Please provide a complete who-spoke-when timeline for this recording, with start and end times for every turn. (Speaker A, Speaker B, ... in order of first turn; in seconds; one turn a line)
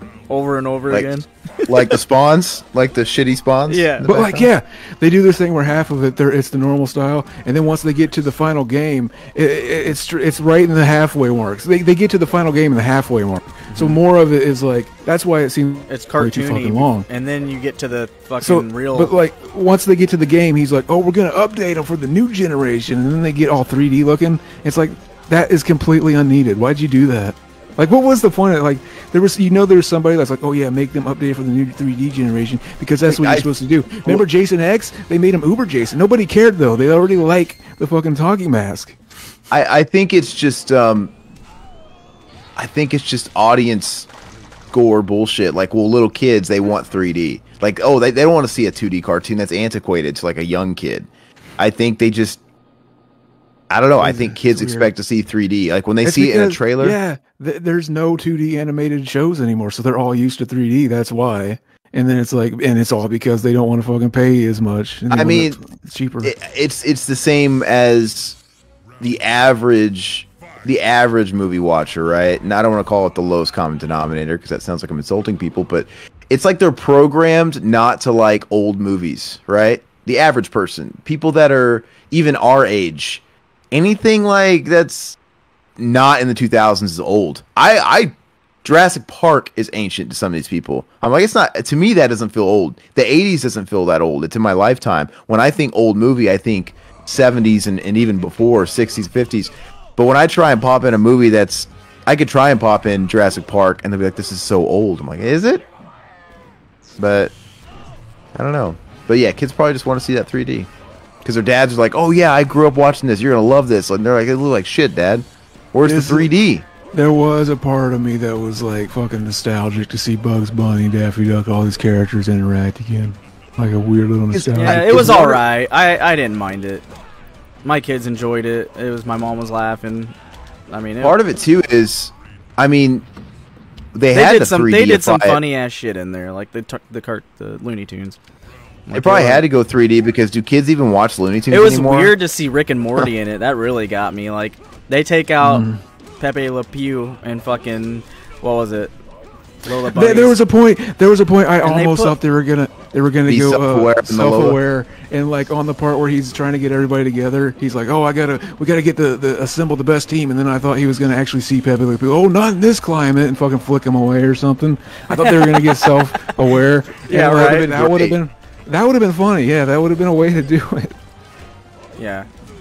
Speaker A: 0.3-2.0
Speaker B: 1.7-4.5
Speaker A: 3.7-4.2
Speaker C: 4.0-17.1
Speaker A: 15.9-19.1
Speaker C: 18.4-39.0
Speaker B: 33.1-33.5
Speaker B: 39.5-41.1
Speaker B: 42.6-44.1
Speaker B: 44.7-52.4
Speaker B: 53.7-57.0
Speaker C: 54.0-54.9
Speaker C: 56.0-66.4
Speaker B: 65.1-65.6
Speaker B: 66.2-68.4
Speaker B: 69.0-85.2
Speaker B: 85.8-105.7
Speaker B: 107.0-107.3
Speaker B: 108.3-110.7
Speaker B: 111.2-116.7
Speaker C: 115.8-116.3
Speaker C: 116.9-125.2
Speaker B: 124.3-125.4
Speaker A: 124.6-126.9
Speaker A: 127.6-130.2
Speaker A: 130.7-131.2
Speaker B: 131.0-133.1
Speaker B: 133.9-135.4
Speaker A: 134.1-138.2
Speaker A: 138.9-139.4
Speaker B: 138.9-142.2
Speaker A: 141.5-145.7
Speaker C: 145.4-145.8
Speaker A: 146.2-148.9
Speaker A: 149.6-150.4
Speaker C: 149.9-171.0
Speaker A: 151.6-152.2
Speaker B: 153.3-154.6
Speaker A: 165.1-165.9
Speaker A: 167.1-167.7
Speaker B: 167.7-168.2
Speaker A: 172.0-172.3